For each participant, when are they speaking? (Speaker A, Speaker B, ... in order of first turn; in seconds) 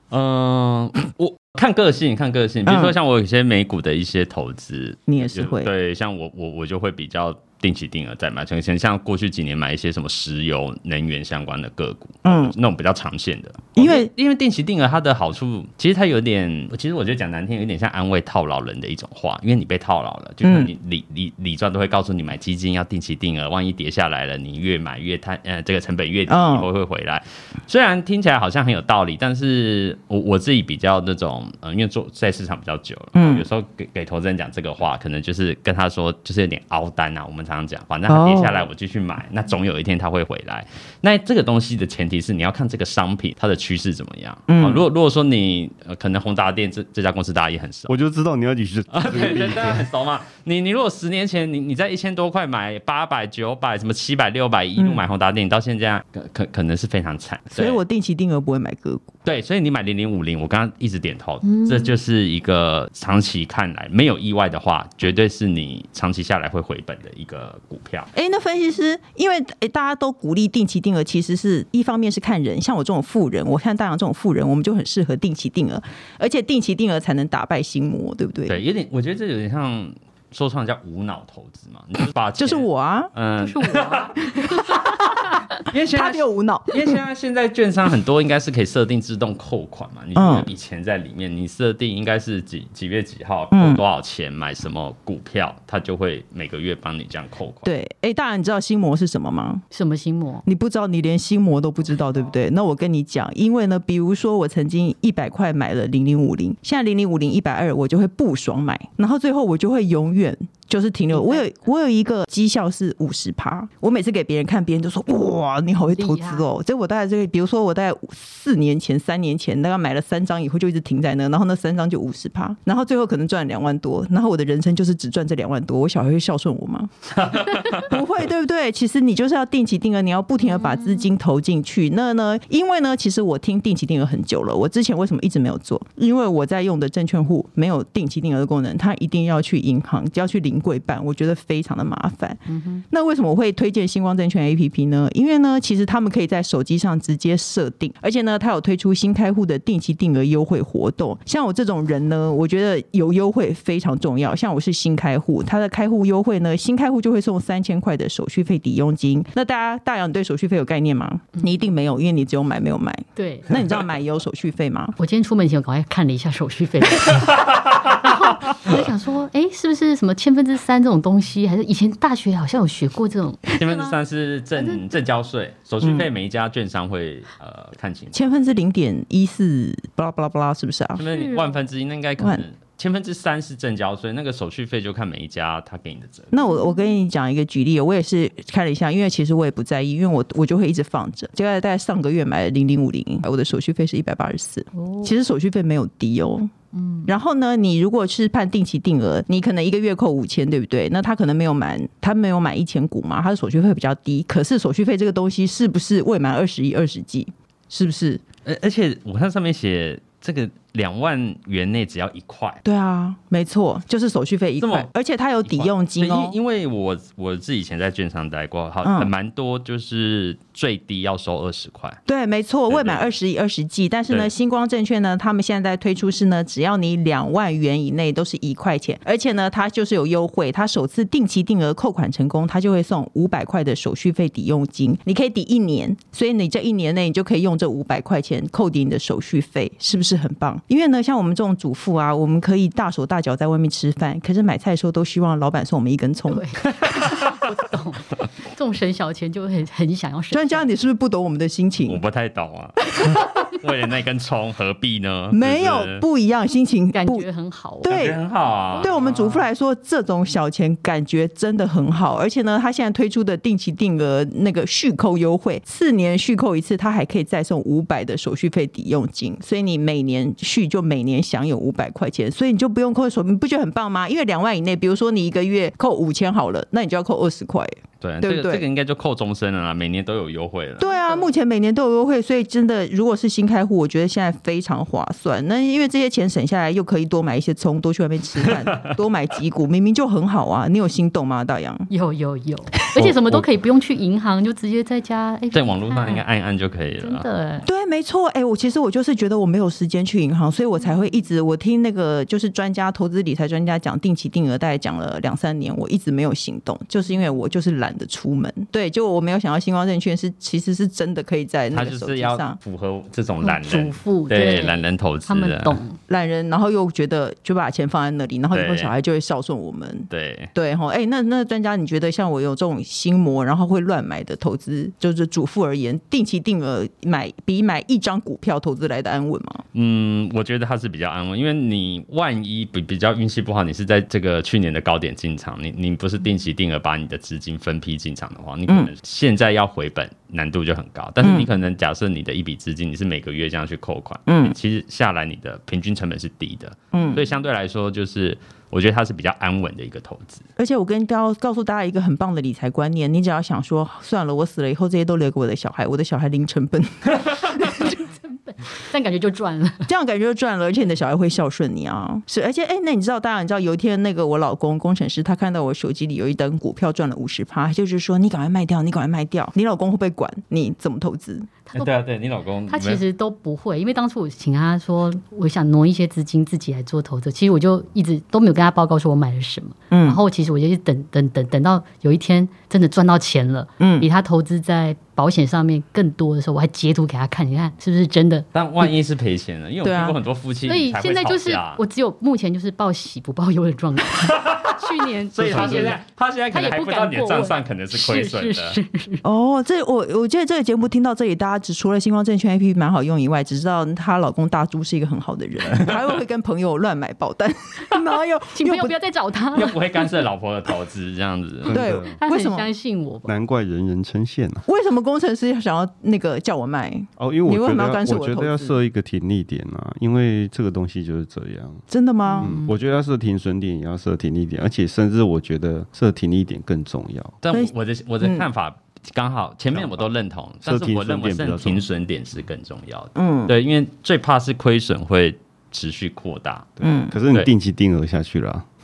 Speaker A: 0.1-47.9, 48.9-57.8, 59.2-68.1, 78.5-84.2, 85.5-97.7, 127.2-127.9, 167.3-167.8, 173.5-178.2, 181.0-186.3, 208.4-212.6, 214.6-214.9, 215.4-222.0, 222.7-223.2, 247.0-247.4, 251.9-256.0, 257.8-259.5, 278.0-280.9, 288.4-288.9, 295.5-297.3, 311.7-315.8, 318.5-318.9, 320.1-320.5, 329.7-350.4, 371.7-373.0, 388.5-391.8, 394.2-398.8, 405.7-406.1, 409.5-411.8, 427.4-436.7
Speaker B: 2.7-3.0, 5.1-5.7, 12.2-12.5, 13.8-14.1, 20.4-20.7, 26.3-26.7, 33.1-33.4, 38.1-38.7, 44.5-44.8, 54.8-55.0, 57.5-59.0, 68.1-78.6, 82.4-83.1, 84.3-85.3, 85.9-87.0, 90.2-90.5, 93.5-93.8, 97.7-99.6, 100.5-126.9, 127.6-165.0, 175.8-176.1, 178.1-181.0, 186.3-196.5, 197.1-208.2, 212.7-216.4, 218.8-219.1, 222.1-246.5, 250.3-252.0, 253.0-253.3, 255.3-257.3, 257.8-258.2, 258.8-278.6, 280.8-291.9, 297.6-312.6, 316.1-329.6, 341.2-341.5, 344.3-344.6, 346.9-347.2, 350.6-358.0, 359.9-371.5, 379.9-380.2, 383.8-384.1, 389.8-390.2, 395.6-395.9, 399.2-408.9, 411.7-412.7, 414.7-418.8, 421.9-422.6, 427.5-428.5, 433.2-433.5, 436.8-437.2
Speaker C: 47.9-49.9, 411.6-412.2, 413.3-414.7, 417.2-421.9, 422.4-427.4, 429.7-430.1, 430.6-431.8, 436.8-438.6
Speaker D: 61.5-61.9, 83.4-84.7, 99.7-100.5, 111.1-111.5, 115.9-116.5, 130.4-131.1, 142.5-142.8, 163.2-163.5, 165.0-173.9, 174.6-175.0, 181.0-181.6, 194.8-195.1, 196.7-197.1, 246.3-250.7, 256.9-258.0, 280.9-281.3, 291.9-296.2, 297.0-297.7, 313.4-316.0, 357.8-359.9, 372.7-388.5, 390.7-396.0, 396.5-399.2, 408.6-410.2, 412.2-413.3, 422.3-422.7